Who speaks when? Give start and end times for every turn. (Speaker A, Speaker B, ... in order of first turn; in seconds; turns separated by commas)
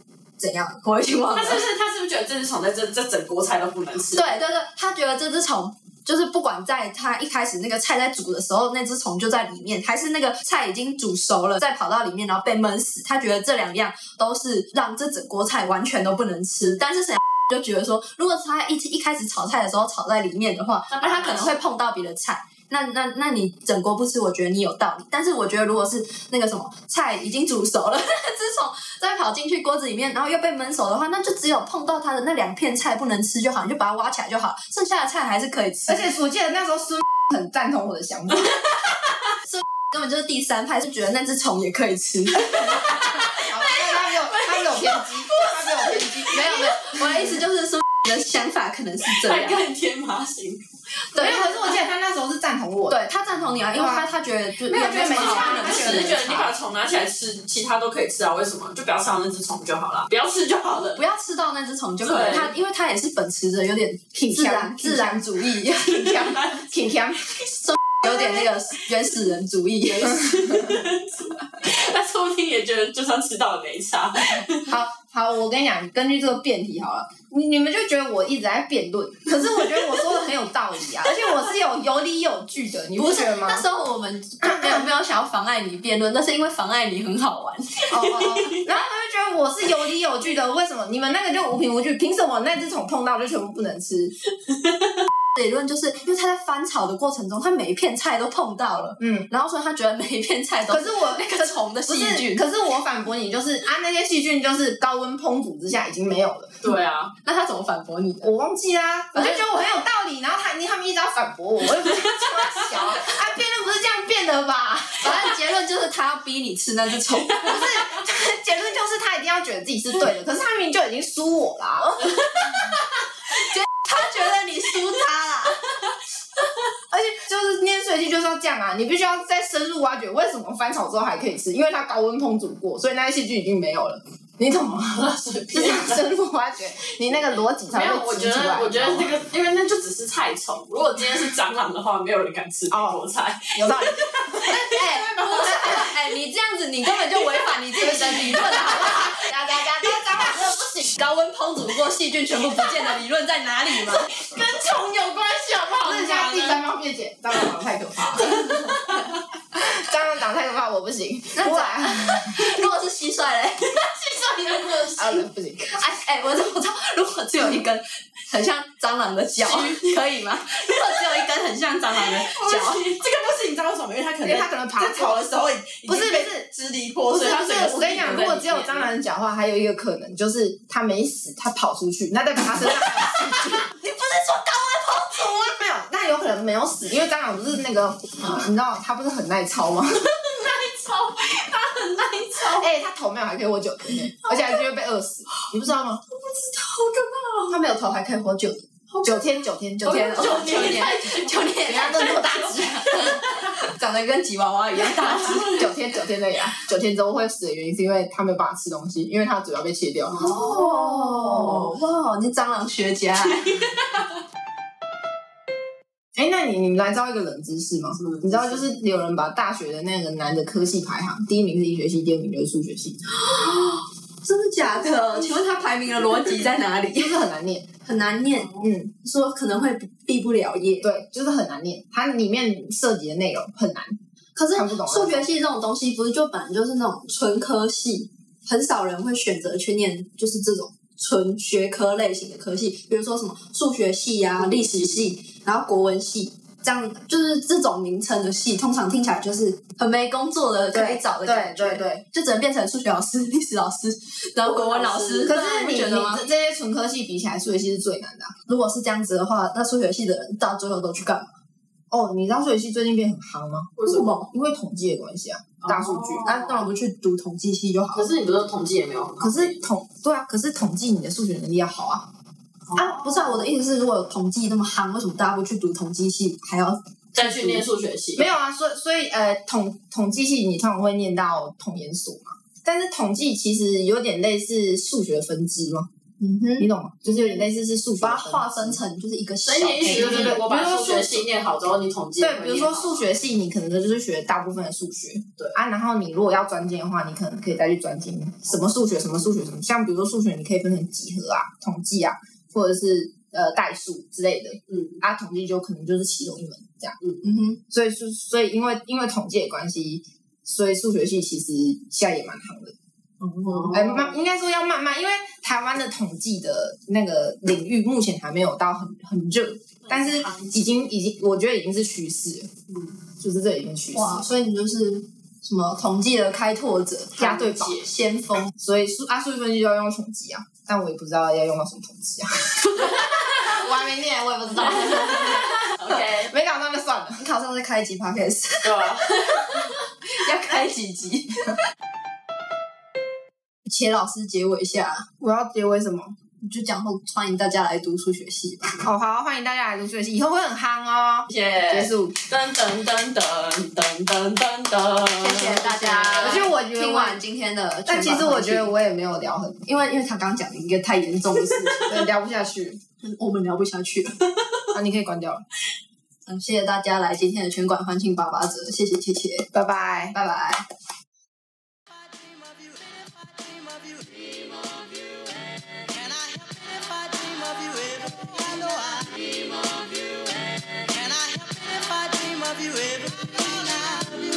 Speaker A: 0.4-1.7, Speaker B: 1.3-4.4, Speaker A: 4.1-36.1, Speaker B: 20.9-21.6, Speaker C: 35.9-38.6, Speaker A: 39.4-49.6, Speaker C: 42.6-47.0, Speaker B: 49.0-50.6, Speaker A: 51.1-51.8, Speaker C: 51.1-53.0, Speaker A: 52.9-56.5, Speaker C: 53.7-54.1, Speaker C: 54.7-56.3, Speaker B: 54.8-61.0, Speaker A: 60.9-66.1, Speaker B: 62.0-62.5, Speaker C: 64.1-67.6, Speaker B: 66.0-66.7, Speaker A: 67.6-70.5, Speaker B: 70.0-74.7, Speaker C: 74.7-83.6, Speaker A: 83.0-88.1, Speaker C: 84.4-84.9, Speaker C: 87.9-94.1, Speaker B: 88.0-88.7, Speaker A: 95.3-102.4, Speaker C: 99.0-99.3, Speaker C: 100.7-106.5, Speaker B: 106.6-107.1, Speaker A: 107.2-108.3, Speaker C: 108.2-115.4, Speaker A: 109.1-109.4, Speaker A: 115.0-117.5, Speaker B: 117.4-117.7, Speaker C: 117.4-122.3, Speaker B: 122.1-122.8, Speaker A: 123.3-125.7, Speaker C: 126.9-139.1, Speaker B: 134.5-136.1, Speaker B: 137.7-145.9, Speaker C: 142.7-142.9, Speaker C: 143.5-144.4, Speaker A: 144.4-149.2, Speaker C: 147.8-150.9, Speaker A: 150.2-154.1, Speaker B: 153.9-156.6, Speaker C: 155.8-158.5, Speaker B: 158.2-159.2, Speaker C: 159.5-162.5, Speaker A: 161.3-163.8, Speaker B: 163.7-165.3, Speaker C: 165.0-165.8, Speaker A: 165.7-172.9, Speaker B: 169.4-170.0, Speaker B: 171.0-171.2, Speaker B: 171.9-178.9, Speaker C: 174.2-175.2, Speaker C: 175.8-176.4, Speaker C: 177.1-183.6, Speaker A: 182.9-185.5, Speaker C: 185.2-190.1, Speaker B: 190.2-192.6, Speaker A: 191.4-192.6, Speaker C: 192.4-196.0, Speaker A: 194.0-194.6, Speaker A: 196.1-205.6, Speaker C: 199.0-200.8, Speaker B: 199.8-203.4, Speaker C: 201.6-203.2, Speaker B: 204.8-205.8, Speaker C: 205.5-210.3, Speaker B: 210.1-211.7, Speaker A: 210.1-213.6, Speaker C: 216.2-223.1, Speaker B: 218.0-218.6, Speaker A: 223.2-227.2, Speaker C: 224.7-225.4, Speaker C: 226.9-227.7, Speaker A: 227.8-230.8, Speaker B: 228.4-228.7, Speaker C: 228.6-228.9, Speaker C: 230.8-234.0, Speaker A: 234.3-256.3, Speaker C: 234.5-235.2, Speaker B: 244.3-245.0, Speaker C: 250.7-252.0, Speaker B: 254.4-255.4, Speaker C: 255.2-258.3, Speaker A: 258.4-261.3, Speaker C: 261.9-266.4, Speaker B: 263.8-264.1, Speaker A: 263.8-264.3, Speaker B: 265.6-266.7, Speaker A: 266.2-268.1, Speaker B: 267.9-269.6, Speaker C: 269.2-272.1, Speaker B: 272.7-273.4, Speaker A: 272.8-277.6, Speaker B: 277.1-278.3, Speaker C: 278.1-285.9, Speaker A: 286.2-287.4, Speaker C: 286.6-288.8, Speaker A: 288.0-290.4, Speaker B: 289.4-293.1, Speaker C: 289.8-291.3, Speaker C: 292.2-307.0, Speaker A: 307.2-307.6, Speaker C: 307.7-312.8, Speaker A: 313.2-313.8, Speaker B: 313.5-314.2, Speaker C: 313.6-322.5, Speaker B: 319.8-320.8, Speaker B: 322.7-323.0, Speaker C: 323.2-324.3, Speaker A: 323.9-328.5, Speaker C: 327.2-327.8, Speaker B: 327.3-327.9, Speaker C: 328.6-337.2, Speaker B: 334.8-336.3, Speaker A: 337.2-341.6, Speaker B: 338.6-339.5, Speaker A: 343.6-345.1, Speaker C: 345.2-346.1, Speaker A: 346.4-348.8, Speaker C: 348.8-352.1, Speaker B: 351.3-356.5, Speaker A: 355.2-358.7, Speaker C: 356.2-357.1, Speaker C: 357.9-359.7, Speaker A: 359.6-362.1, Speaker C: 361.9-362.8, Speaker A: 363.0-364.3, Speaker C: 364.7-365.4, Speaker A: 366.2-369.5, Speaker C: 369.5-370.1, Speaker A: 370.1-370.6, Speaker A: 377.2-379.2, Speaker A: 381.0-384.2